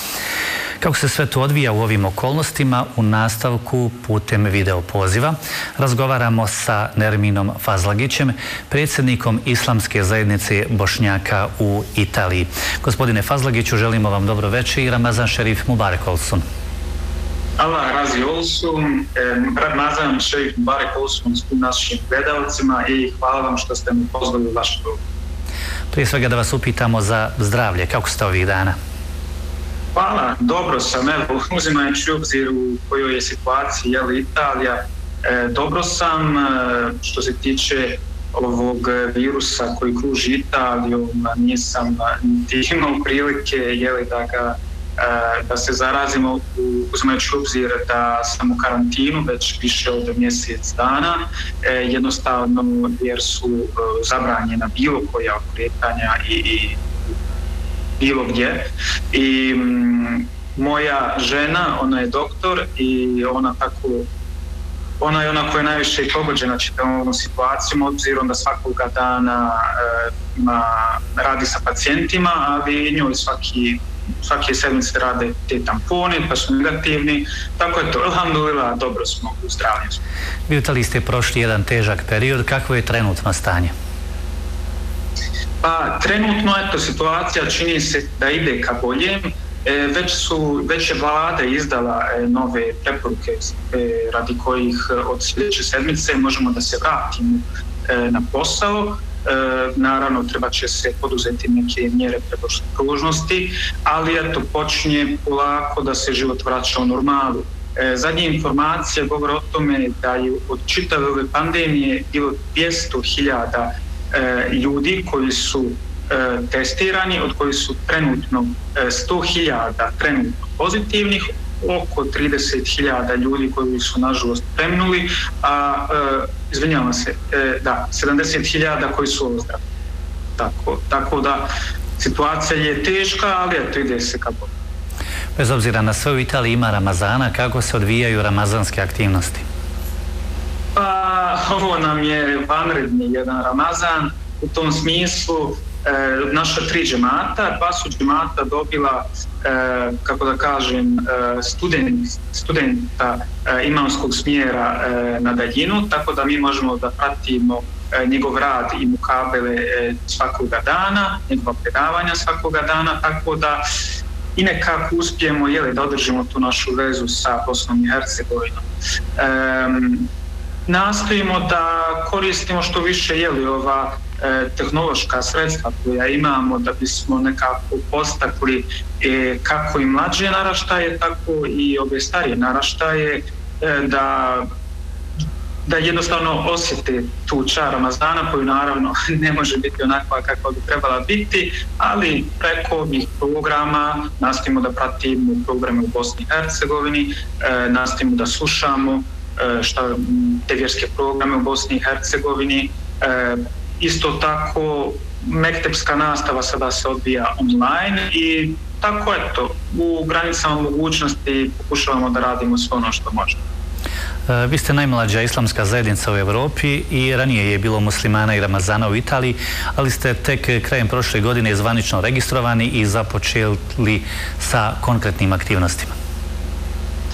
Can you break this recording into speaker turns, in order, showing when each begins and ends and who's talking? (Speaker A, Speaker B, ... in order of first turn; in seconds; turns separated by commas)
Speaker A: 0.8-16.4, Speaker B: 17.6-25.0, Speaker A: 25.9-28.8, Speaker B: 29.9-57.1, Speaker B: 58.0-64.1, Speaker B: 65.0-80.0, Speaker A: 80.5-83.7, Speaker B: 85.6-129.6, Speaker B: 130.4-134.5, Speaker A: 135.3-139.4, Speaker B: 140.7-163.6, Speaker B: 164.3-170.1, Speaker B: 170.7-184.5, Speaker B: 185.6-213.4, Speaker A: 214.3-225.9